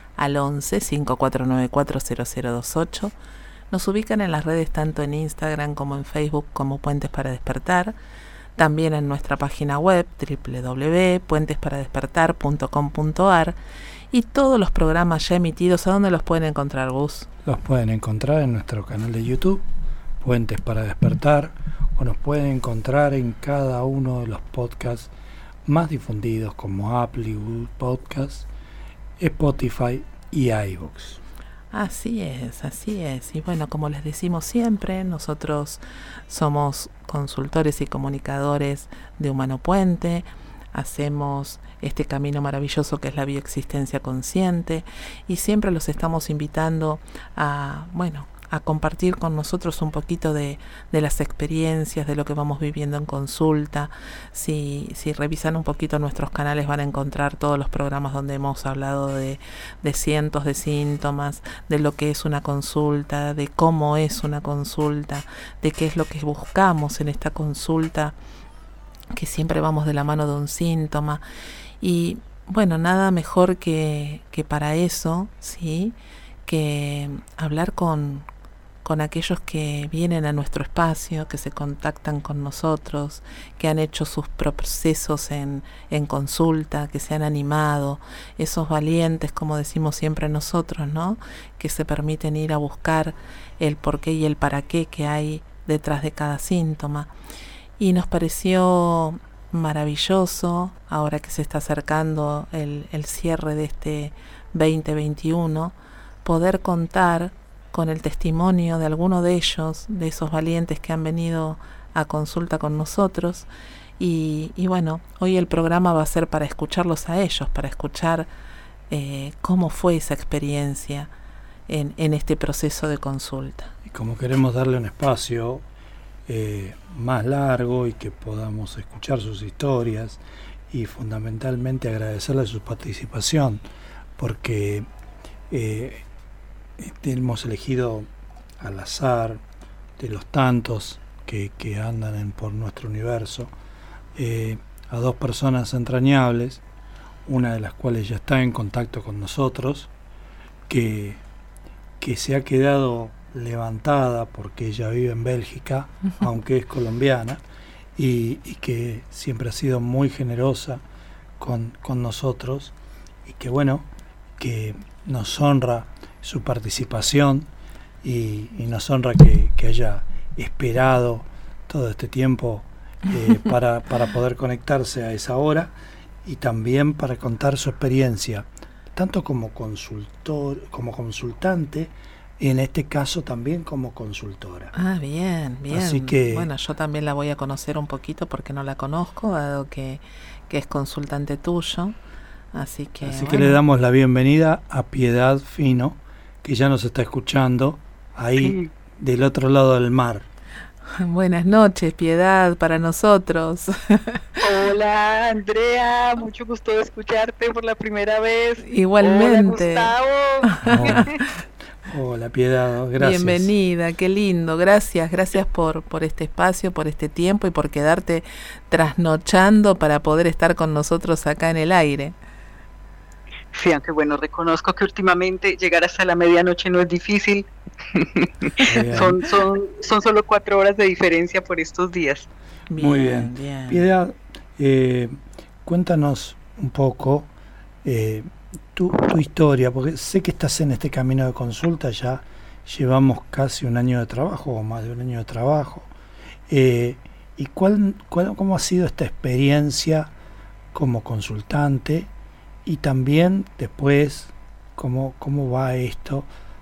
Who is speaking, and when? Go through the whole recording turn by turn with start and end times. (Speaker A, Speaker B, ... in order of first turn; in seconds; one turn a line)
Speaker A: 0.2-3.1
Speaker A: 3.7-7.9
Speaker A: 8.6-13.6
Speaker A: 14.1-17.3
Speaker B: 17.4-19.6
Speaker B: 20.2-25.1
Speaker B: 25.7-28.5
Speaker B: 29.2-31.2
Speaker A: 31.7-68.1
Speaker A: 69.1-71.2
Speaker A: 71.8-75.9
Speaker A: 76.5-78.2
Speaker A: 78.8-97.1
Speaker A: 97.8-113.5
Speaker A: 114.0-118.3
Speaker A: 118.9-121.1
Speaker A: 121.7-123.7
Speaker B: 123.8-125.6
Speaker B: 126.3-133.6
Speaker B: 134.2-134.9
Speaker B: 135.5-136.1
Speaker B: 136.8-138.1
Speaker B: 138.6-139.4
Speaker B: 140.0-143.5
Speaker B: 144.1-146.6
Speaker B: 147.2-149.9
Speaker B: 150.7-151.2
Speaker B: 152.0-157.4
Speaker B: 157.9-160.8
Speaker B: 161.4-162.7
Speaker B: 163.2-163.9
Speaker B: 164.4-167.5
Speaker B: 168.0-175.7
Speaker B: 176.2-184.7
Speaker A: 184.7-191.9
Speaker B: 185.7-186.5
Speaker A: 192.5-193.6
Speaker B: 193.0-200.2
Speaker C: 198.4-198.7
Speaker A: 200.9-204.2
Speaker C: 204.4-211.2
Speaker A: 208.7-209.9
Speaker A: 210.6-211.0
Speaker B: 210.6-211.1
Speaker B: 211.8-213.5
Speaker A: 213.0-222.1
Speaker C: 223.5-232.3
Speaker B: 228.6-229.2
Speaker A: 232.7-233.8
Speaker B: 232.8-237.3
Speaker B: 237.8-245.9
Speaker B: 246.5-250.1
Speaker B: 250.7-252.1
Speaker B: 252.7-256.3